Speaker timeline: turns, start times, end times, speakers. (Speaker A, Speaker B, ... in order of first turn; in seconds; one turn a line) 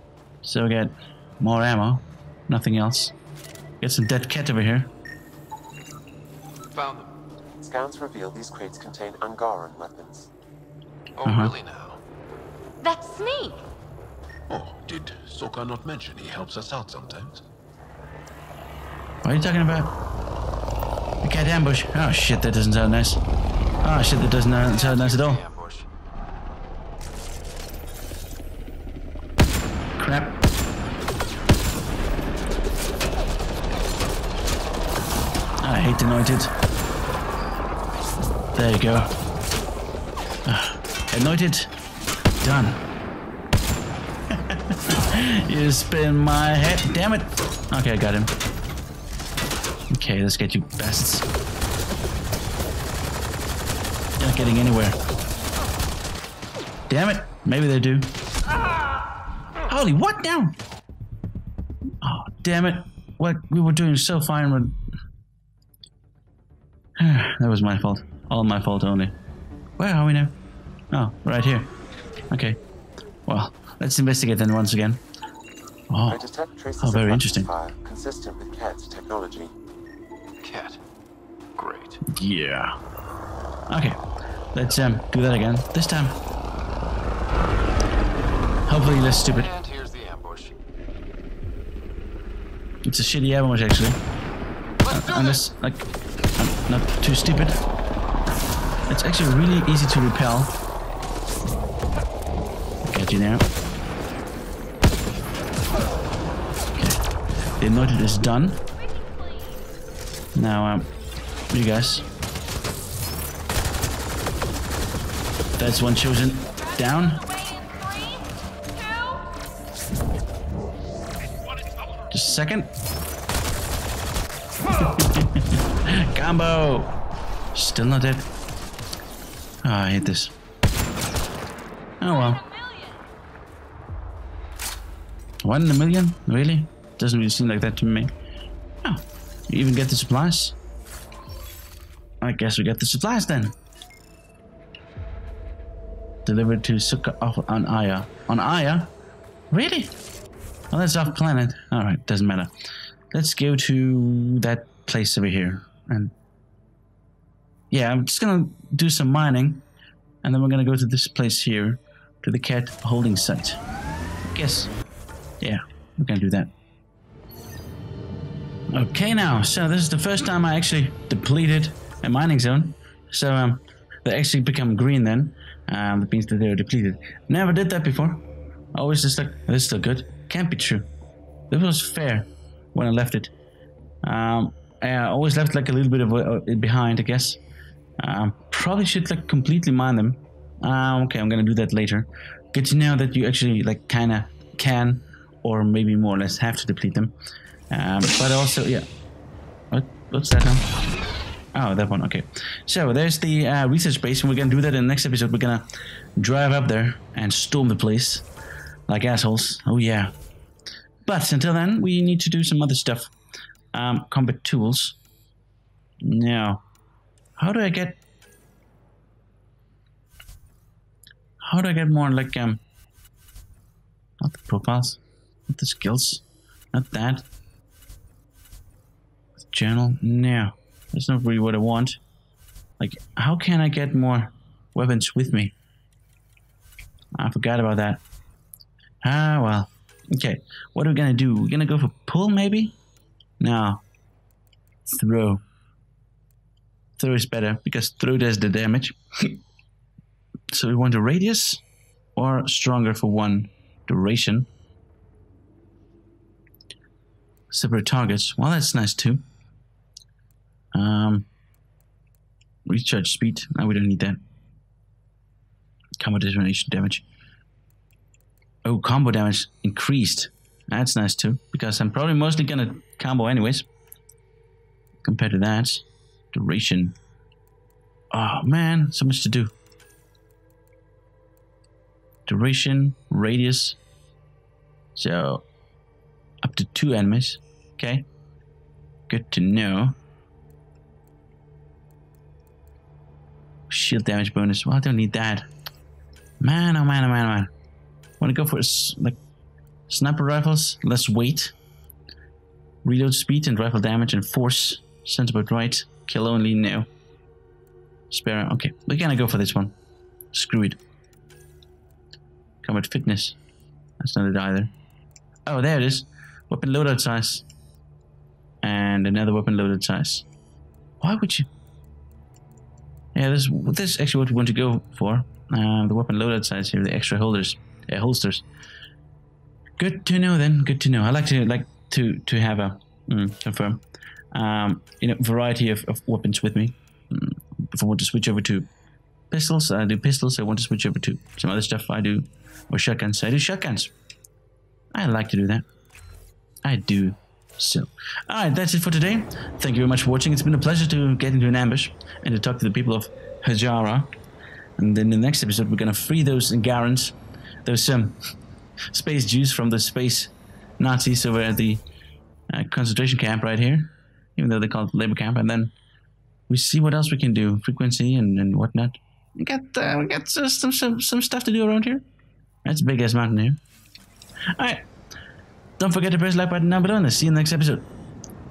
Speaker A: 0.4-3.1
Speaker A: 3.8-4.9
Speaker B: 6.7-7.1
Speaker C: 7.6-10.3
Speaker B: 11.2-12.0
Speaker A: 11.2-11.6
Speaker D: 12.8-13.6
Speaker E: 14.5-17.4
Speaker A: 19.2-19.9
Speaker A: 21.2-23.2
Speaker A: 23.8-25.4
Speaker B: 24.6-25.9
Speaker A: 30.0-30.4
Speaker A: 35.6-36.5
Speaker A: 38.5-39.1
Speaker A: 40.5-41.7
Speaker A: 42.4-42.8
Speaker A: 44.3-48.3
Speaker A: 49.9-51.3
Speaker A: 54.2-55.0
Speaker A: 56.9-58.1
Speaker A: 59.7-60.6
Speaker A: 62.0-64.8
Speaker A: 67.0-69.1
Speaker A: 69.8-70.3
Speaker A: 70.9-71.7
Speaker A: 72.3-72.6
Speaker A: 73.3-75.0
Speaker A: 75.9-76.2
Speaker C: 76.1-79.5
Speaker A: 76.8-77.5
Speaker B: 80.4-80.8
Speaker B: 81.6-82.0
Speaker A: 82.1-82.7
Speaker A: 83.7-84.0
Speaker A: 84.5-86.2
Speaker A: 88.7-89.5
Speaker B: 89.0-90.5
Speaker A: 92.8-94.0
Speaker B: 94.8-95.4
Speaker A: 94.9-95.8
Speaker A: 96.4-97.6
Speaker A: 98.9-100.5
Speaker A: 102.8-103.5
Speaker A: 106.8-107.0
Speaker A: 107.6-108.6
Speaker D: 108.8-109.6
Speaker A: 110.3-110.9
Speaker A: 111.5-112.0
Speaker A: 115.6-117.2
Speaker D: 116.5-118.2
Speaker A: 122.1-122.7
Speaker A: 124.8-126.9
Speaker A: 127.5-128.3
Speaker A: 129.6-130.3
Speaker A: 132.0-132.4
Speaker D: 132.1-133.0
Speaker A: 135.4-138.1
Speaker A: 138.8-140.5
Speaker A: 142.2-143.6
Speaker A: 146.2-148.9
Speaker A: 149.5-149.9
Speaker A: 150.7-152.5
Speaker A: 153.1-156.1
Speaker A: 157.7-159.6
Speaker A: 160.2-163.6
Speaker A: 164.3-164.7
Speaker A: 165.4-166.5
Speaker A: 168.7-178.2
Speaker A: 178.7-180.9
Speaker A: 181.5-183.3
Speaker A: 184.0-187.4
Speaker A: 188.0-197.1
Speaker A: 197.7-198.9
Speaker A: 199.7-200.7
Speaker A: 201.5-205.7
Speaker A: 206.2-208.2
Speaker A: 208.9-210.1
Speaker A: 211.0-213.1
Speaker A: 213.7-214.9
Speaker A: 216.0-216.6
Speaker A: 217.4-218.0
Speaker A: 221.4-222.6
Speaker A: 224.2-227.2
Speaker A: 229.5-232.0
Speaker A: 232.8-235.5
Speaker A: 237.1-238.0
Speaker A: 239.0-242.8
Speaker A: 243.4-243.8
Speaker A: 244.9-245.4
Speaker A: 247.0-249.4
Speaker A: 250.5-251.6
Speaker A: 252.2-254.5
Speaker A: 257.5-259.2
Speaker A: 260.7-261.3
Speaker A: 262.6-264.2
Speaker A: 266.0-267.0
Speaker A: 268.6-273.7
Speaker A: 275.0-276.9
Speaker A: 278.1-279.5
Speaker A: 282.3-283.8
Speaker A: 284.9-285.4
Speaker A: 286.4-288.1
Speaker A: 289.1-290.0
Speaker A: 293.7-295.5
Speaker A: 296.4-297.5
Speaker A: 298.2-299.2
Speaker A: 299.9-301.5
Speaker A: 302.8-306.9
Speaker A: 308.1-309.8
Speaker A: 310.3-310.8
Speaker A: 312.6-313.4
Speaker A: 314.0-314.7
Speaker A: 315.4-317.4
Speaker A: 318.6-320.2
Speaker A: 321.0-321.5
Speaker A: 323.1-328.4
Speaker A: 329.8-338.7
Speaker A: 339.3-343.9
Speaker A: 344.9-345.6
Speaker A: 346.6-354.1
Speaker A: 354.8-358.2
Speaker A: 358.9-361.8
Speaker A: 362.5-365.7
Speaker A: 366.5-372.1
Speaker A: 372.6-373.6
Speaker A: 374.6-374.8
Speaker A: 375.8-377.9